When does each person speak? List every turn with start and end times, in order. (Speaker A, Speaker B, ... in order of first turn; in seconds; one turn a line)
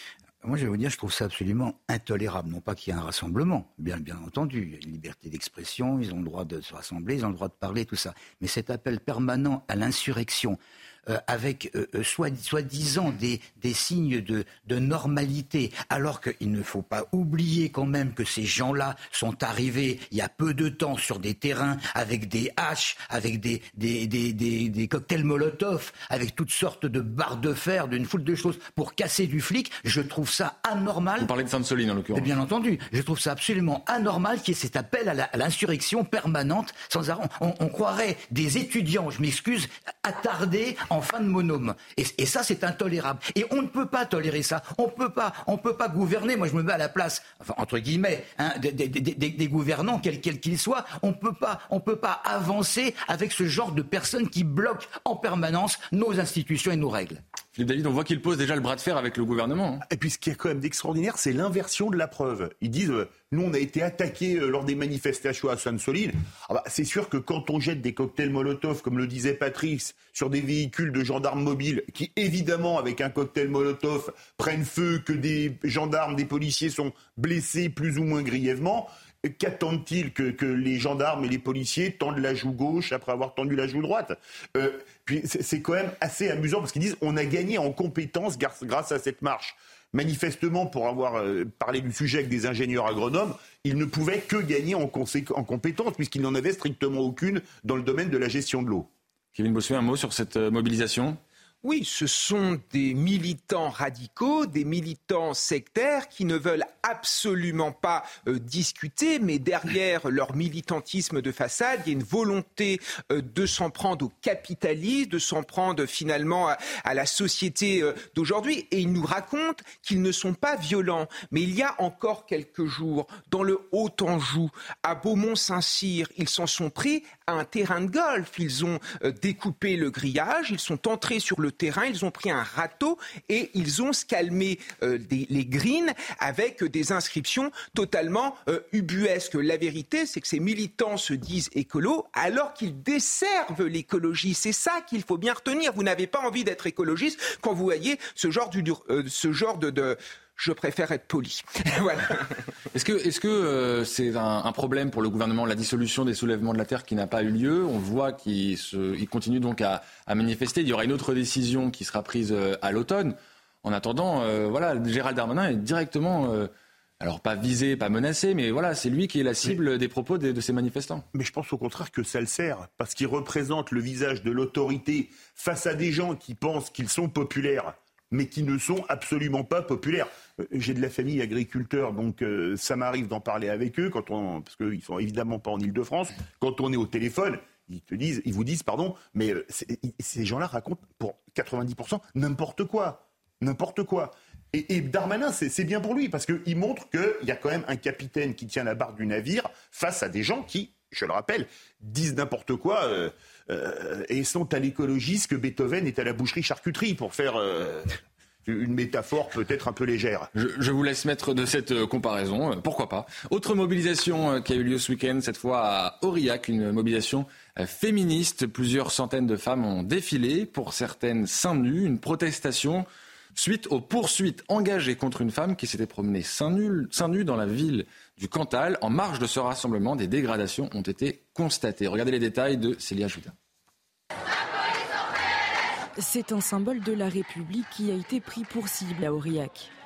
Speaker A: 0.4-31.3
Speaker B: 31.2-32.3
Speaker A: 32.1-57.2
Speaker B: 57.5-59.8
Speaker C: 59.9-98.9
Speaker B: 99.3-101.2
Speaker D: 101.6-152.4
Speaker B: 152.7-171.1
Speaker C: 171.1-207.9
Speaker C: 208.4-210.3
Speaker B: 210.3-222.8
Speaker B: 223.3-233.3
Speaker E: 236.0-239.7